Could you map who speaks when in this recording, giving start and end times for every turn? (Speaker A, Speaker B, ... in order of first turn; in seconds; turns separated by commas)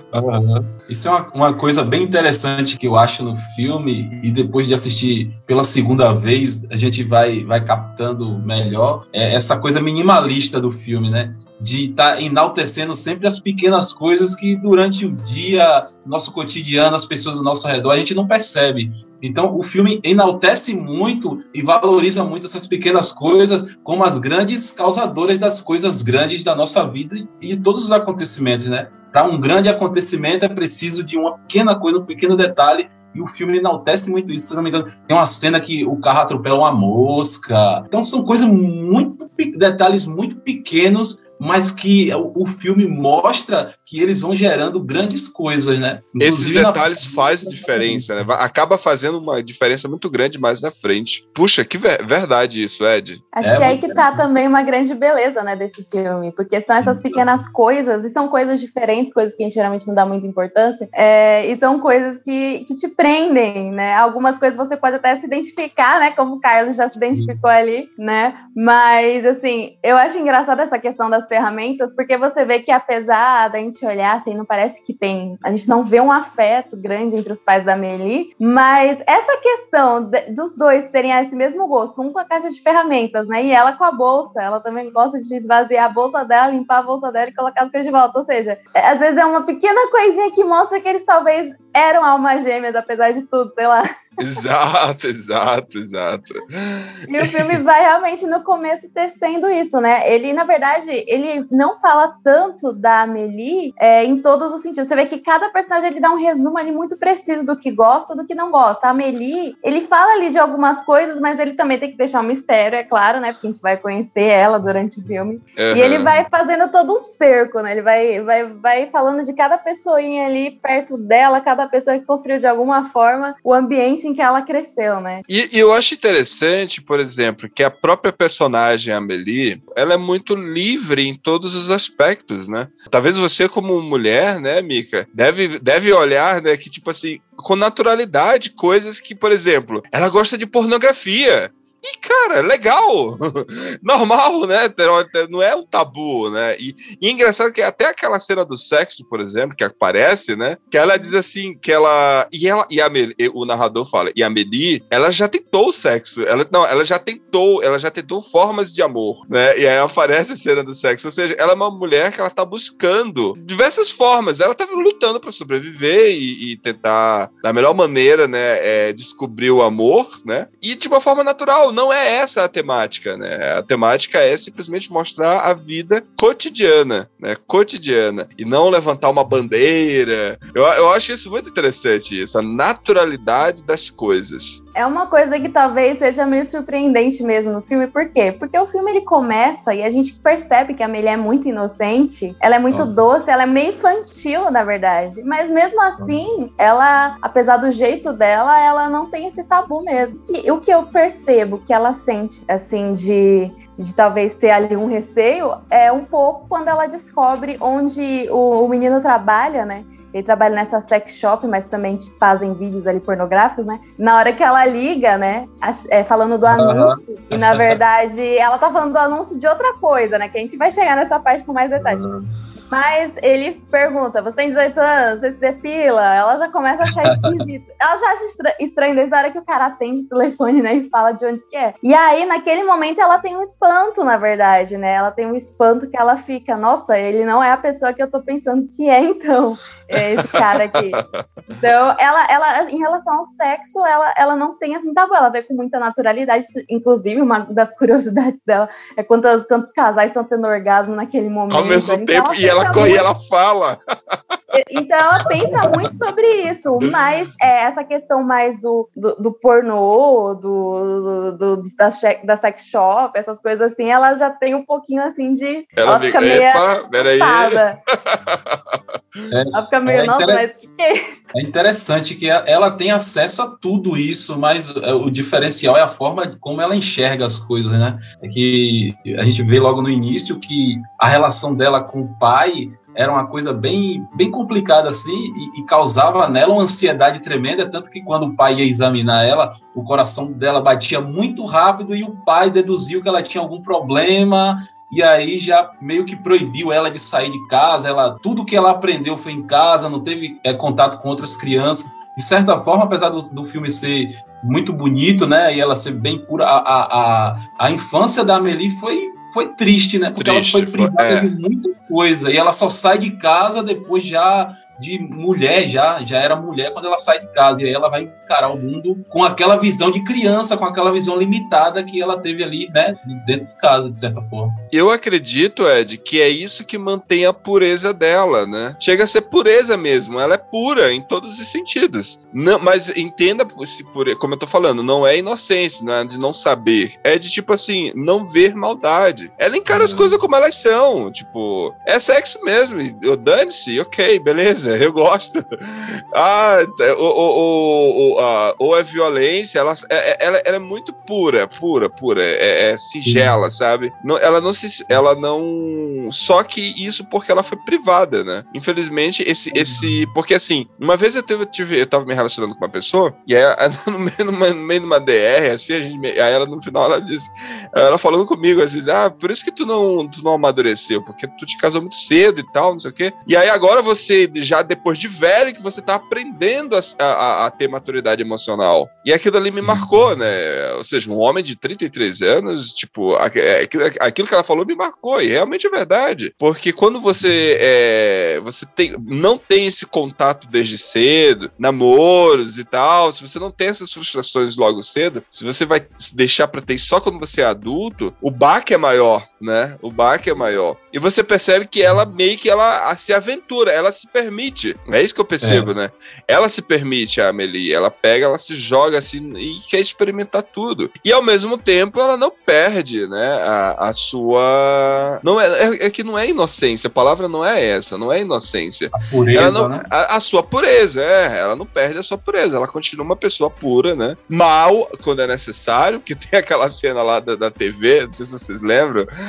Speaker A: 0.1-48.1, Speaker B: 46.2-53.2, Speaker C: 53.3-93.8, Speaker A: 53.4-54.2, Speaker A: 56.8-57.2, Speaker A: 67.1-67.3, Speaker B: 94.2-97.5, Speaker C: 97.1-125.2, Speaker B: 115.6-116.1, Speaker B: 125.3-184.6, Speaker C: 184.8-222.0, Speaker A: 192.7-193.0, Speaker A: 216.5-217.8, Speaker A: 221.8-222.3, Speaker C: 222.7-241.0, Speaker A: 227.0-227.3, Speaker B: 240.1-241.0, Speaker C: 241.5-253.1, Speaker B: 251.5-254.2, Speaker C: 254.5-267.8, Speaker A: 255.5-255.9, Speaker B: 265.8-269.2, Speaker A: 269.3-270.6, Speaker C: 269.5-271.2, Speaker A: 271.3-324.6, Speaker B: 310.2-311.3, Speaker B: 324.7-429.1, Speaker A: 339.7-340.1, Speaker A: 353.0-353.3, Speaker A: 359.5-360.0, Speaker A: 379.4-379.9, Speaker A: 405.4-405.7, Speaker A: 418.9-419.9